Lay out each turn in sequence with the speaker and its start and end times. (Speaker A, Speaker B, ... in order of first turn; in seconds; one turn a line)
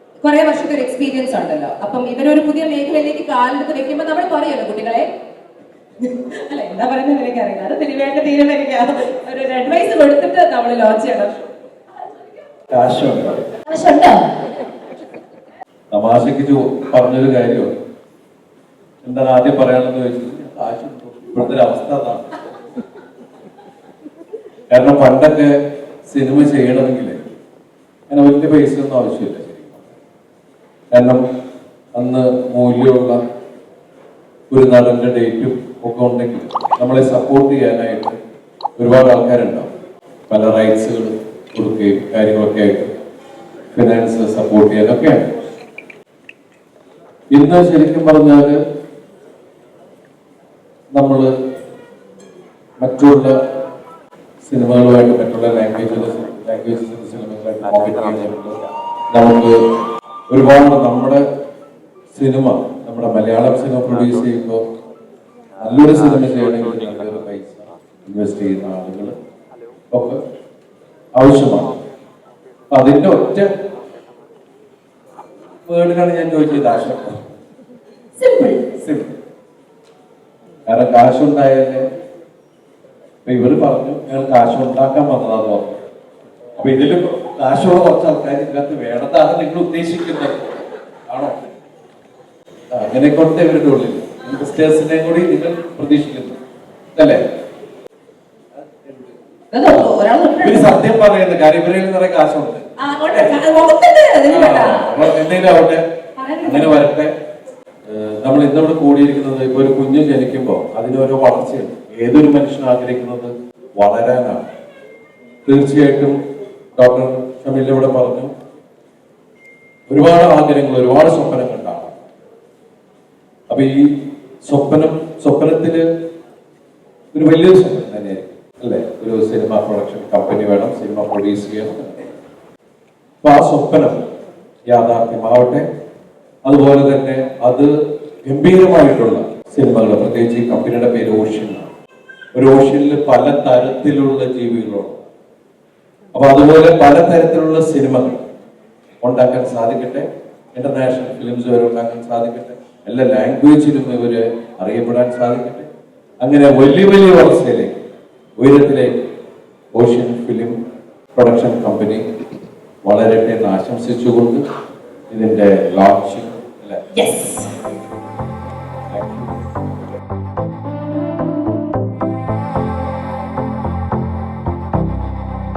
Speaker A: 0.2-5.1
Speaker A: 6.0-11.4
Speaker B: 12.7-13.4
Speaker A: 13.7-14.3
Speaker B: 15.9-17.7
Speaker B: 19.0-22.4
Speaker B: 24.7-27.2
Speaker B: 28.1-29.9
Speaker B: 30.9-31.2
Speaker B: 31.9-33.2
Speaker B: 34.5-38.2
Speaker B: 38.8-39.7
Speaker B: 40.3-43.0
Speaker B: 43.7-45.3
Speaker B: 47.3-48.6
Speaker B: 51.0-51.3
Speaker B: 52.8-53.4
Speaker B: 54.4-58.6
Speaker B: 59.1-59.6
Speaker B: 60.3-61.2
Speaker B: 62.1-64.6
Speaker B: 65.6-69.1
Speaker B: 69.9-70.2
Speaker B: 71.2-71.7
Speaker B: 72.7-73.5
Speaker B: 75.7-77.3
Speaker A: 78.2-78.7
Speaker B: 78.7-79.1
Speaker B: 80.7-81.9
Speaker B: 83.2-85.8
Speaker B: 86.6-91.4
Speaker B: 92.7-96.4
Speaker B: 97.0-97.2
Speaker B: 98.6-99.1
Speaker A: 99.5-100.9
Speaker B: 99.7-103.4
Speaker A: 102.8-105.0
Speaker B: 104.3-105.8
Speaker A: 106.2-106.8
Speaker B: 106.4-107.1
Speaker B: 107.9-114.5
Speaker B: 115.5-116.2
Speaker B: 116.8-118.3
Speaker B: 119.9-122.0
Speaker B: 123.5-125.9
Speaker B: 127.1-132.1
Speaker B: 133.2-134.0
Speaker B: 134.7-135.7
Speaker B: 136.5-137.7
Speaker B: 138.2-141.7
Speaker B: 142.3-145.1
Speaker B: 146.1-148.3
Speaker B: 149.0-155.7
Speaker B: 156.2-157.8
Speaker B: 158.4-159.0
Speaker B: 159.8-160.6
Speaker B: 161.2-162.1
Speaker B: 162.8-164.4
Speaker B: 165.1-167.6
Speaker A: 167.0-167.5
Speaker B: 168.9-169.4